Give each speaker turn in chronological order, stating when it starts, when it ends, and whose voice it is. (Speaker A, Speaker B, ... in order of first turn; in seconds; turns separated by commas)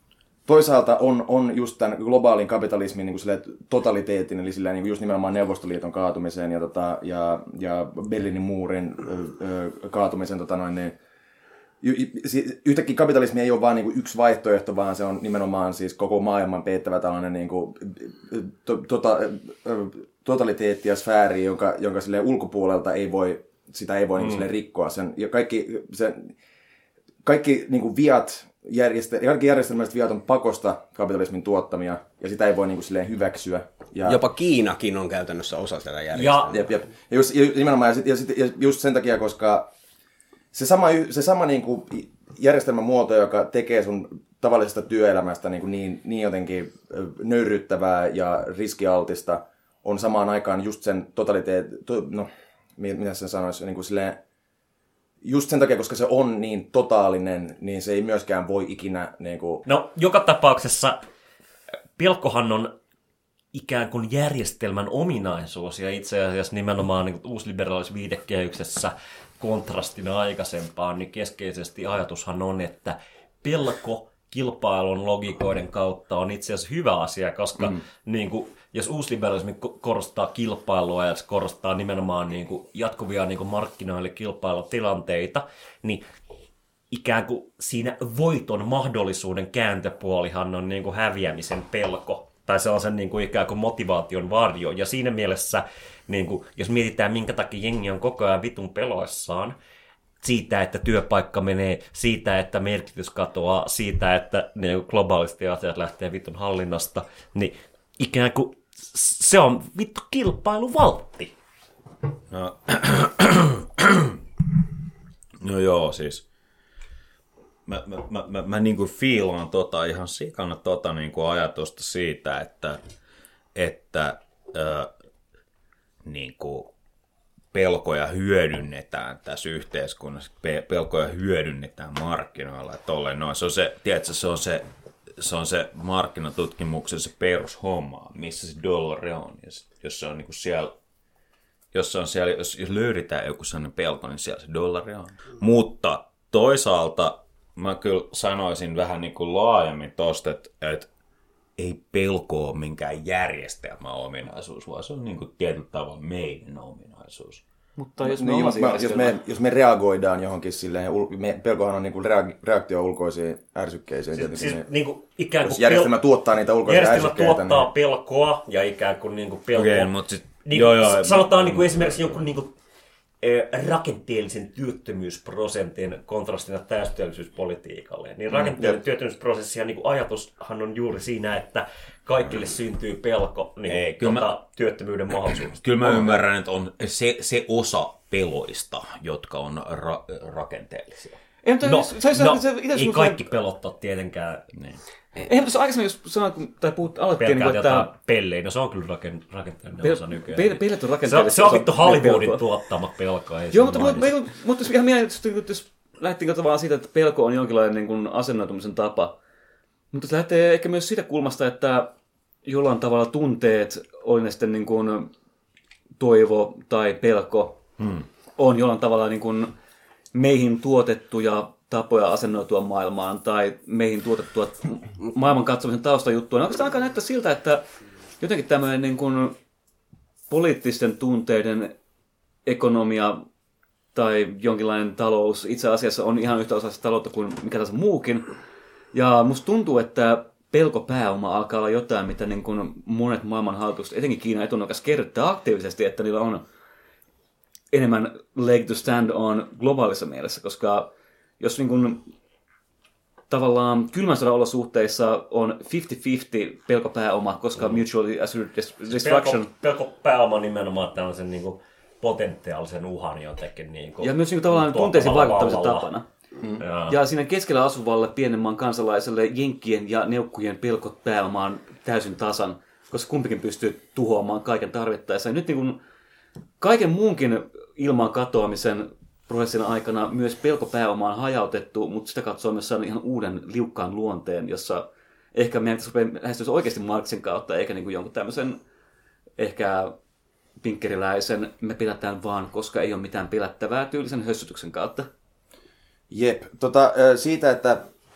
Speaker A: 0.5-11.0, Speaker A: 11.8-26.3, Speaker A: 27.2-34.2, Speaker B: 34.0-36.6, Speaker C: 36.1-36.5, Speaker A: 36.5-39.7, Speaker A: 40.5-54.2, Speaker A: 55.2-59.6, Speaker C: 59.6-61.0, Speaker C: 62.0-62.7, Speaker C: 63.5-86.0, Speaker C: 86.9-99.5, Speaker C: 100.2-111.3, Speaker D: 112.3-114.2, Speaker D: 115.4-116.2, Speaker D: 117.7-122.8, Speaker D: 123.5-124.9, Speaker D: 126.0-126.7, Speaker D: 127.5-140.7, Speaker D: 141.7-150.9, Speaker D: 151.6-157.4, Speaker E: 157.8-159.2, Speaker A: 158.0-164.6, Speaker C: 164.1-165.9, Speaker A: 165.4-167.7, Speaker C: 166.7-172.5, Speaker D: 169.5-172.2, Speaker C: 173.2-186.2, Speaker D: 178.3-178.7, Speaker D: 183.7-184.3, Speaker D: 185.3-191.2, Speaker E: 191.4-193.3, Speaker C: 191.6-194.4, Speaker D: 194.5-194.8, Speaker E: 195.2-197.9, Speaker C: 197.2-204.1, Speaker E: 199.8-202.4, Speaker E: 203.5-209.2, Speaker E: 209.9-211.9, Speaker E: 212.4-215.1, Speaker E: 216.0-217.6, Speaker D: 217.8-218.0, Speaker E: 218.4-219.5, Speaker E: 220.1-227.6, Speaker E: 228.2-229.3, Speaker E: 230.3-231.7, Speaker E: 232.4-233.2, Speaker E: 233.9-238.2, Speaker E: 238.9-246.4, Speaker E: 247.7-252.1, Speaker E: 253.3-259.5, Speaker C: 258.9-265.9, Speaker E: 264.0-266.1, Speaker C: 266.6-267.0, Speaker E: 266.9-275.8, Speaker E: 276.6-288.6, Speaker E: 289.4-289.9, Speaker E: 290.6-295.1, Speaker A: 296.1-297.9